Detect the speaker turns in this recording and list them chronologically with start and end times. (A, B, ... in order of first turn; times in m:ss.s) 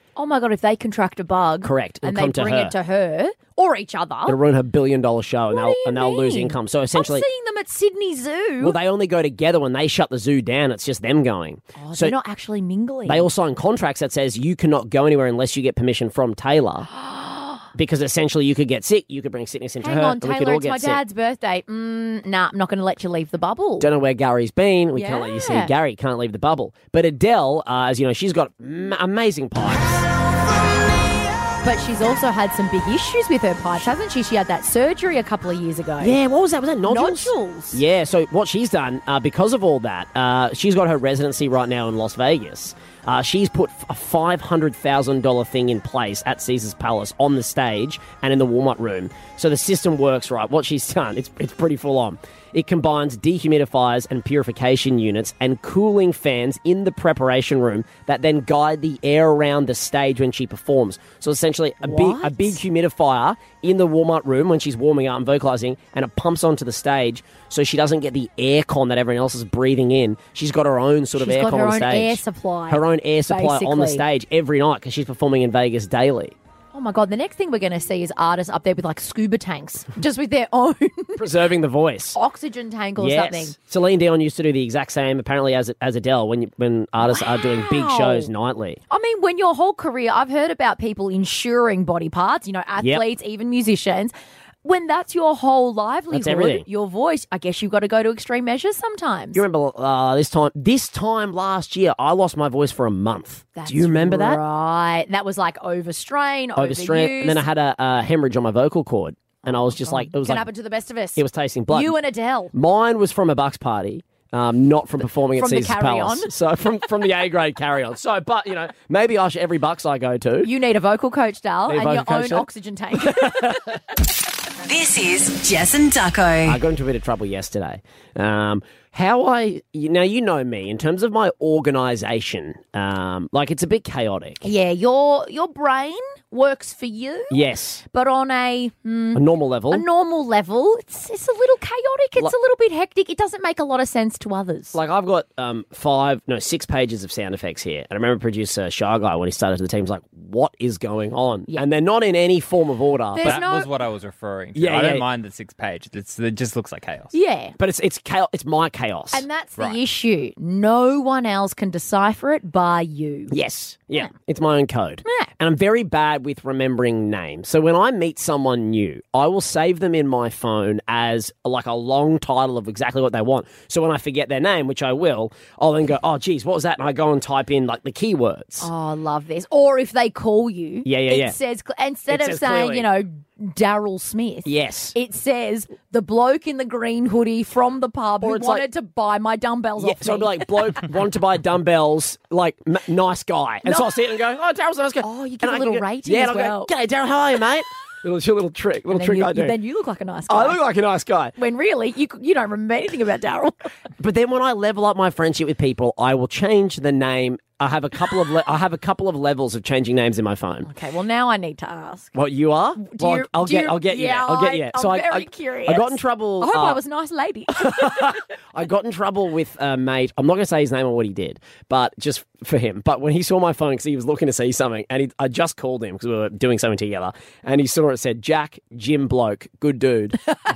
0:00.2-0:04.4 A
0:01.6-0:02.7 B
0:04.3-0:07.2 B
0:05.5-0:08.8 A
0:08.6-0:12.1 B
0:11.8-0:13.3 A
0:13.0-0:16.9 B
0:16.9-0:17.6 A
0:17.7-0:21.0 B
0:19.8-0:23.9 A
0:23.8-0:30.0 B
0:24.9-0:25.7 A
0:31.6-0:36.2 A
0:36.0-1:16.4 B
0:36.8-0:37.8 A
1:01.8-1:02.6 A
1:11.2-1:14.0 A
1:16.7-1:21.2 A
1:21.2-1:22.2 B
1:22.1-1:23.5 A
1:23.0-1:28.8 B
1:27.0-1:28.3 A
1:28.9-1:34.1 A
1:32.8-1:33.0 B
1:34.6-1:39.4 A
1:36.1-1:36.6 B
1:39.3-1:44.4 B
1:43.6-1:47.4 A
1:46.6-1:50.5 B
1:49.5-1:52.5 A
1:51.2-1:52.0 B
1:52.5-2:00.5 B
1:55.3-1:56.3 A
2:00.4-2:03.7 A
2:01.7-2:03.8 B
2:04.6-2:06.6 C
2:06.4-2:14.4 B
2:14.4-2:17.4 A
2:17.3-2:17.8 B
2:17.9-2:24.8 A
2:19.1-2:19.8 B
2:24.7-2:33.4 B
2:33.1-2:33.7 A
2:33.2-2:37.1 D
2:34.5-2:35.0 B
2:37.1-2:37.5 A
2:37.6-2:39.2 B
2:39.1-2:43.3 A
2:43.3-2:58.7 B
2:45.0-2:45.3 A
2:58.6-3:10.8 A
3:00.8-3:01.4 B
3:02.1-3:02.9 B
3:04.4-3:04.9 B
3:08.2-3:08.6 B
3:09.8-3:19.5 B
3:15.0-3:16.7 A
3:18.9-3:20.6 A
3:20.3-3:21.3 B
3:21.4-3:23.5 A
3:24.0-3:30.7 B
3:30.6-3:32.1 A
3:32.1-3:36.8 B
3:32.8-3:38.2 A
3:37.5-3:50.2 B